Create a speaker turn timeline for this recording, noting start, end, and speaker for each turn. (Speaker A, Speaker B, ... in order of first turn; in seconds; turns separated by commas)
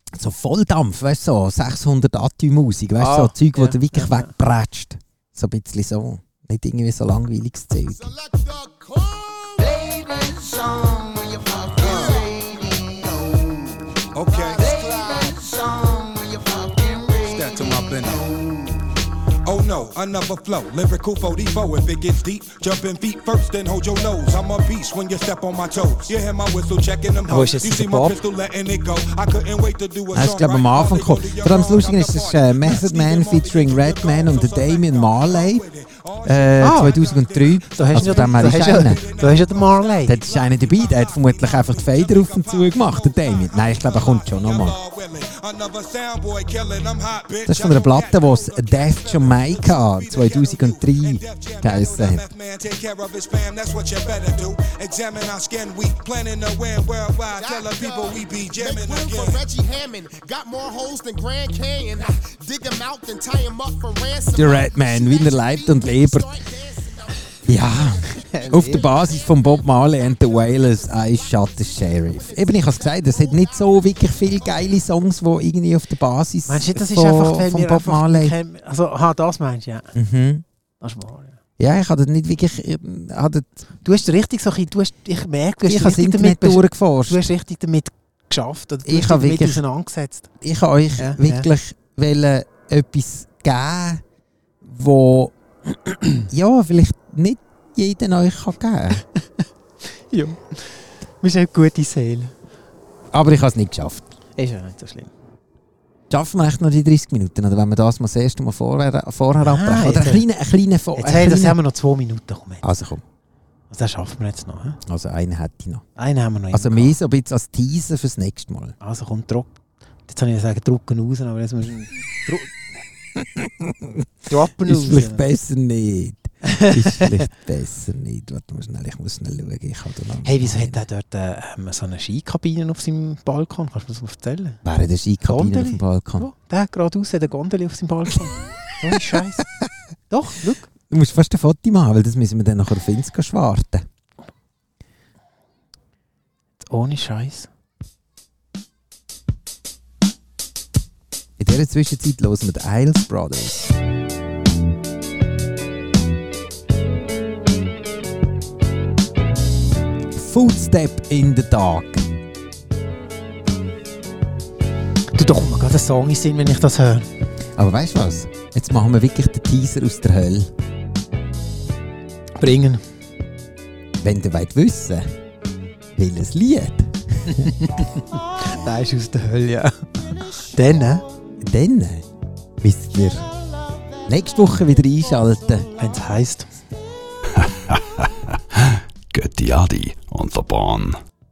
Speaker A: 0.1-8.1, Speaker B: 3.0-4.3, Speaker C: 8.0-18.9, Speaker D: 11.8-12.2, Speaker D: 14.1-14.7, Speaker D: 17.2-18.3, Speaker D: 19.4-59.4, Speaker B: 27.3-28.2, Speaker A: 30.1-35.6, Speaker A: 36.2-39.0, Speaker B: 36.6-37.0, Speaker B: 37.7-40.2, Speaker A: 40.0-44.8, Speaker A: 47.5-52.2, Speaker C: 57.3-67.1, Speaker A: 64.3-66.4, Speaker A: 67.4-78.3, Speaker B: 68.1-68.9, Speaker B: 76.5-79.9, Speaker A: 79.9-80.4, Speaker B: 80.8-81.4, Speaker A: 81.6-83.5, Speaker B: 83.8-90.3, Speaker A: 85.6-87.3, Speaker A: 88.8-89.6, Speaker A: 90.4-94.0, Speaker B: 91.0-91.5, Speaker A: 94.6-95.3, Speaker A: 96.3-99.0, Speaker B: 100.1-102.3, Speaker A: 103.1-104.1, Speaker B: 104.4-105.1, Speaker A: 106.1-111.6, Speaker B: 109.4-110.2, Speaker B: 111.0-112.6, Speaker A: 112.6-113.0, Speaker B: 113.7-114.8, Speaker A: 114.8-115.9, Speaker B: 116.0-117.0, Speaker A: 116.5-118.8, Speaker B: 118.8-119.5, Speaker B: 120.1-122.5, Speaker A: 123.2-124.0, Speaker B: 124.3-125.3, Speaker A: 124.6-130.8, Speaker B: 126.4-127.2, Speaker B: 130.2-134.6, Speaker A: 134.6-136.3, Speaker B: 135.2-139.5, Speaker A: 138.9-139.6, Speaker B: 140.1-140.7, Speaker A: 140.9-143.8, Speaker B: 146.6-147.5, Speaker A: 151.4-153.7, Speaker A: 160.1-162.0, Speaker B: 165.1-167.1, Speaker A: 167.6-170.5, Speaker B: 172.4-172.8, Speaker A: 174.0-175.1, Speaker A: 175.9-177.5, Speaker B: 177.3-181.0, Speaker A: 181.4-182.1, Speaker A: 182.6-183.3, Speaker A: 184.1-185.7, Speaker B: 185.8-186.5, Speaker E: 187.3-191.0